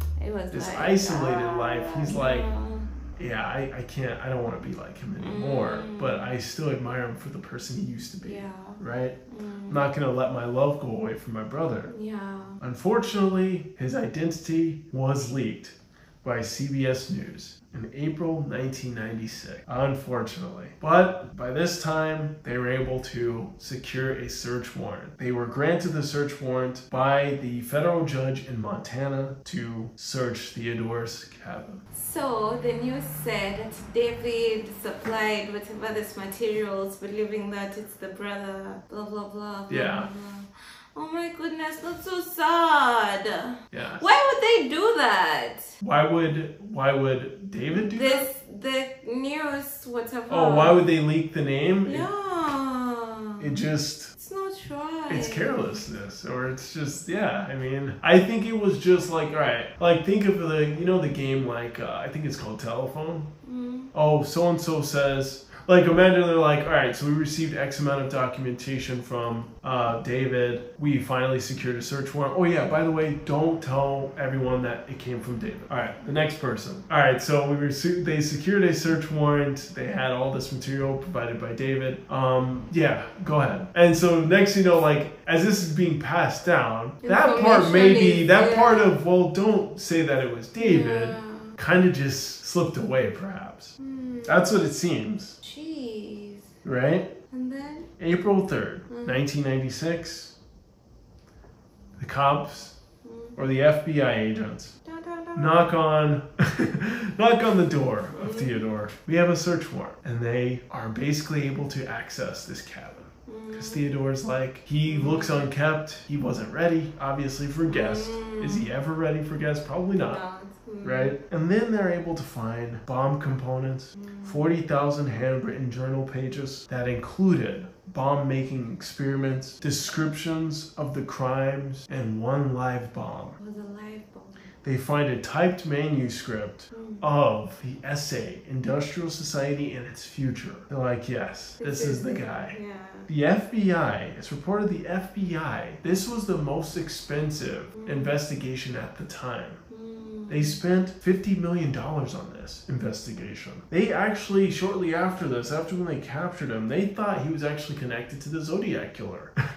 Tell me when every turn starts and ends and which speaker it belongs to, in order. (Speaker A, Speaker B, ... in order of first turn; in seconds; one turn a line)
Speaker A: 0.2-2.9
Speaker B: 0.5-2.5
Speaker B: 3.2-11.9
Speaker A: 5.2-6.3
Speaker A: 8.2-9.8
Speaker A: 11.9-12.6
Speaker B: 12.6-31.8
Speaker A: 31.9-45.8
Speaker B: 39.7-40.1
Speaker B: 43.7-44.1
Speaker B: 45.8-48.3
Speaker A: 47.8-50.9
Speaker B: 50.3-52.1
Speaker A: 51.9-53.5
Speaker B: 53.4-54.1
Speaker A: 54.1-55.9
Speaker B: 55.1-63.3
Speaker A: 63.4-63.9
Speaker B: 63.9-95.4
Speaker A: 87.0-88.9
Speaker A: 90.6-91.6
Speaker A: 93.8-94.6
Speaker A: 95.4-96.5
Speaker B: 96.7-97.1
Speaker A: 97.3-97.9
Speaker B: 98.0-100.3
Speaker A: 98.9-99.2
Speaker B: 102.0-102.8
Speaker A: 103.0-103.4
Speaker B: 103.4-104.7
Speaker A: 104.8-105.6
Speaker B: 105.3-120.2
Speaker A: 108.1-108.7
Speaker A: 113.3-113.8
Speaker A: 114.8-115.5
Speaker A: 117.7-118.7
Speaker A: 120.0-121.2
Speaker B: 120.8-133.4
Speaker A: 124.0-124.4
Speaker A: 133.4-134.4
Speaker B: 134.6-142.6
Speaker A: 136.7-137.1
Speaker A: 141.6-143.1
Speaker B: 143.1-149.6
Speaker A: 147.8-148.1
Speaker A: 149.7-150.6
Speaker B: 150.3-159.3